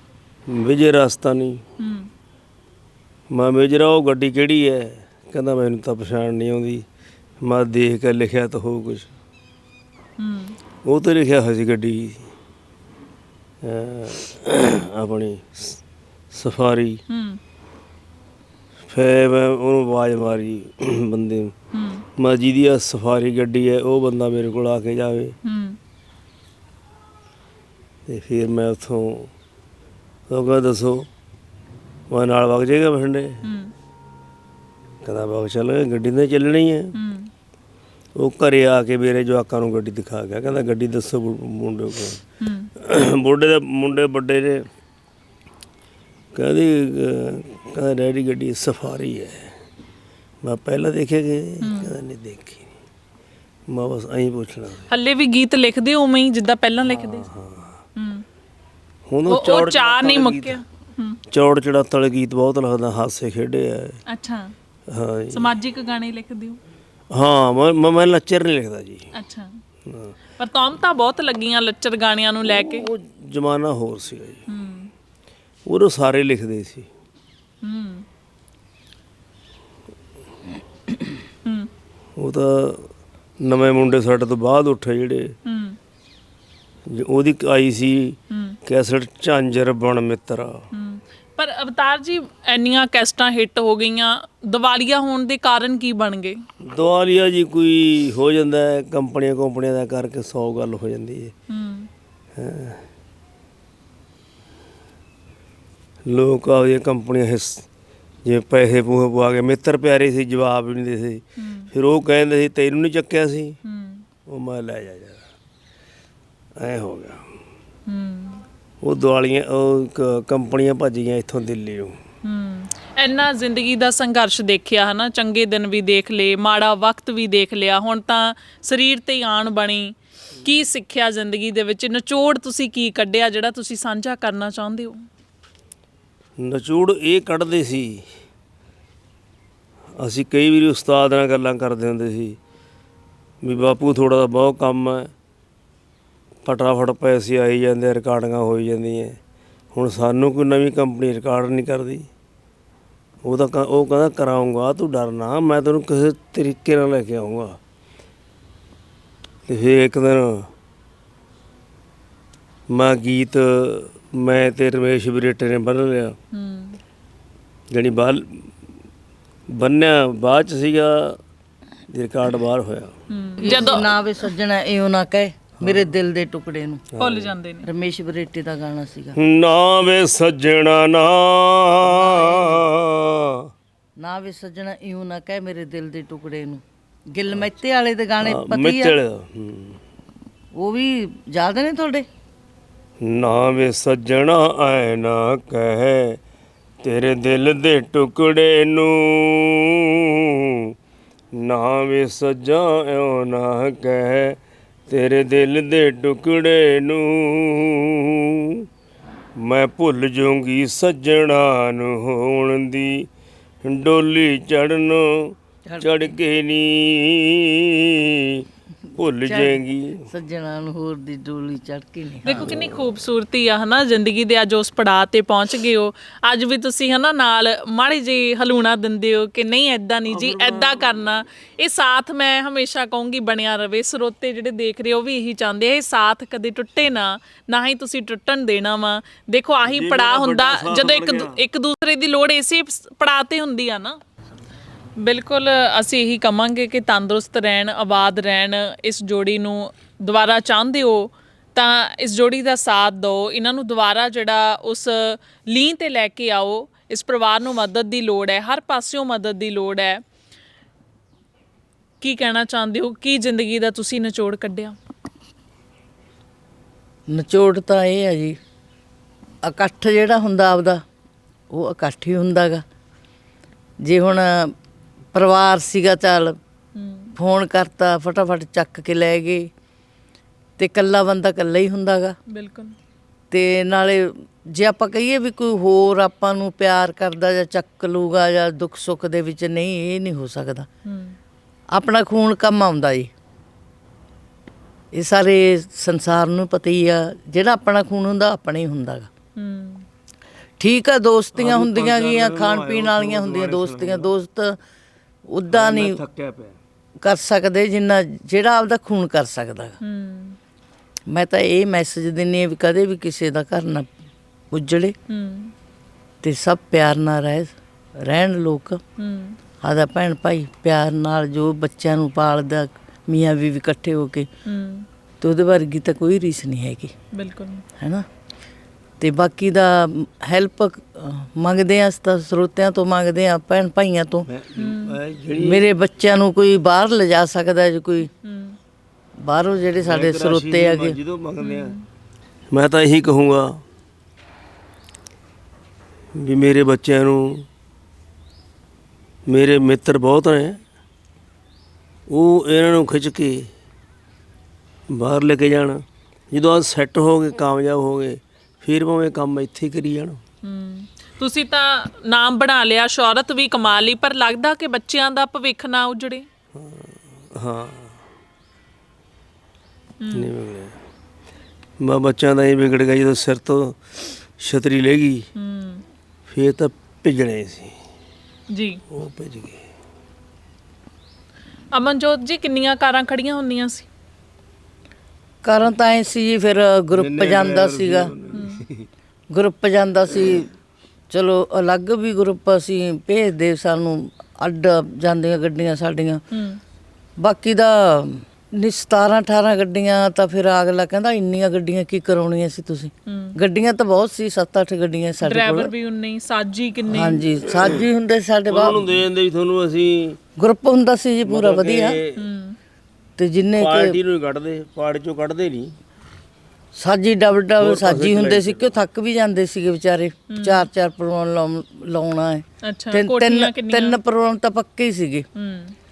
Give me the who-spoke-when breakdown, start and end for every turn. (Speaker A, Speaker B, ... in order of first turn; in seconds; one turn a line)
Speaker A: 0.5-1.6
Speaker B: 1.8-2.1
Speaker A: 3.3-6.8
Speaker A: 7.4-9.1
Speaker B: 10.2-10.6
Speaker A: 10.8-12.3
Speaker A: 13.6-15.8
Speaker A: 16.3-17.0
Speaker B: 17.1-17.4
Speaker A: 18.9-21.5
Speaker B: 21.7-22.1
Speaker A: 22.2-25.3
Speaker B: 25.4-25.8
Speaker A: 28.1-29.3
Speaker A: 30.3-31.1
Speaker A: 32.1-33.4
Speaker B: 33.4-33.7
Speaker A: 35.0-36.9
Speaker B: 36.9-37.3
Speaker A: 38.1-42.2
Speaker B: 42.4-42.7
Speaker A: 42.8-44.6
Speaker A: 46.3-49.5
Speaker A: 50.4-52.7
Speaker B: 51.6-51.9
Speaker A: 53.7-54.9
Speaker B: 54.9-57.3
Speaker A: 56.9-57.7
Speaker B: 58.0-58.2
Speaker A: 59.1-60.6
Speaker B: 59.3-61.2
Speaker A: 61.3-64.0
Speaker B: 64.1-64.5
Speaker A: 64.9-65.5
Speaker B: 65.3-66.6
Speaker A: 67.1-69.1
Speaker B: 69.1-69.6
Speaker A: 69.9-70.1
Speaker B: 70.4-72.9
Speaker A: 72.5-74.4
Speaker B: 74.5-74.9
Speaker A: 75.7-76.9
Speaker B: 77.6-78.0
Speaker A: 82.2-85.3
Speaker B: 85.5-85.8
Speaker A: 86.9-90.6
Speaker B: 88.3-88.6
Speaker B: 90.7-96.4
Speaker A: 96.6-101.3
Speaker B: 101.5-101.9
Speaker A: 102.3-102.8
Speaker A: 106.1-107.7
Speaker A: 108.2-113.6
Speaker B: 111.4-111.7
Speaker B: 113.6-114.0
Speaker A: 114.3-115.2
Speaker A: 116.6-117.2
Speaker B: 117.9-118.4
Speaker A: 118.8-122.0
Speaker B: 122.2-135.0
Speaker A: 136.4-138.0
Speaker A: 140.0-142.4
Speaker A: 143.4-145.1
Speaker A: 146.4-149.2
Speaker A: 149.7-152.1
Speaker A: 153.2-157.6
Speaker A: 159.5-160.5
Speaker A: 162.7-166.2
Speaker B: 166.3-166.8
Speaker A: 167.7-168.5
Speaker A: 169.5-171.2
Speaker A: 171.9-172.9
Speaker B: 173.1-173.9
Speaker C: 173.4-176.8
Speaker A: 175.6-175.9
Speaker A: 176.9-177.3
Speaker B: 177.0-177.7
Speaker C: 177.6-179.2
Speaker A: 179.2-183.5
Speaker C: 181.8-182.7
Speaker C: 184.0-189.0
Speaker A: 188.2-189.8
Speaker C: 190.6-192.1
Speaker A: 193.0-196.2
Speaker A: 196.8-200.7
Speaker A: 201.3-204.4
Speaker A: 204.9-208.7
Speaker A: 209.4-213.1
Speaker A: 213.6-220.1
Speaker C: 215.7-216.1
Speaker C: 219.2-222.5
Speaker B: 222.2-244.0
Speaker A: 222.3-222.8
Speaker A: 230.1-230.9
Speaker A: 239.7-241.4
Speaker B: 245.0-260.0
Speaker B: 262.0-264.8
Speaker C: 267.1-268.4
Speaker C: 269.4-270.8
Speaker C: 271.5-272.6
Speaker C: 273.8-274.5
Speaker C: 275.1-276.4
Speaker B: 276.8-277.1
Speaker C: 277.1-279.5
Speaker C: 280.6-282.2
Speaker B: 282.3-282.7
Speaker C: 283.3-290.7
Speaker B: 290.9-291.2
Speaker C: 291.7-293.1
Speaker C: 294.9-299.1
Speaker B: 299.4-299.9
Speaker C: 300.6-304.6
Speaker A: 301.3-304.1
Speaker C: 305.3-306.0
Speaker A: 305.5-306.6
Speaker C: 307.0-309.8
Speaker B: 309.8-310.4
Speaker C: 311.1-313.9
Speaker C: 314.5-314.9
Speaker B: 315.1-315.5
Speaker C: 316.2-318.8
Speaker B: 319.0-319.4
Speaker C: 319.6-324.3
Speaker B: 324.4-324.9
Speaker C: 325.2-326.9
Speaker B: 327.1-327.6
Speaker C: 327.8-328.1
Speaker C: 329.0-334.3
Speaker A: 334.3-335.6
Speaker B: 334.5-335.0
Speaker C: 335.4-338.1
Speaker B: 338.2-338.6
Speaker C: 339.2-341.0
Speaker A: 339.8-341.7
Speaker B: 341.4-341.8
Speaker A: 342.5-343.6
Speaker A: 346.1-347.4
Speaker A: 349.3-350.6
Speaker A: 352.1-353.5
Speaker A: 354.9-360.2
Speaker B: 360.4-366.3
Speaker A: 366.5-367.9
Speaker B: 370.0-370.3
Speaker A: 370.1-370.8
Speaker A: 371.8-375.3
Speaker B: 375.4-375.8
Speaker A: 376.3-377.7
Speaker B: 378.5-378.8
Speaker A: 378.9-379.6
Speaker B: 381.7-383.9
Speaker C: 385.4-388.1
Speaker A: 386.9-388.9
Speaker B: 388.3-388.6
Speaker C: 389.3-390.5
Speaker C: 391.1-396.2
Speaker B: 396.3-396.6
Speaker C: 397.2-405.7
Speaker B: 403.1-403.3
Speaker B: 405.2-407.2
Speaker C: 406.9-409.0
Speaker A: 407.6-407.8
Speaker A: 408.5-410.2
Speaker C: 410.4-412.0
Speaker A: 411.2-412.2
Speaker B: 412.2-412.6
Speaker C: 413.2-414.0
Speaker A: 413.6-415.7
Speaker C: 416.7-425.3
Speaker A: 417.6-418.7
Speaker B: 420.3-420.6
Speaker B: 422.6-424.0
Speaker B: 425.4-425.7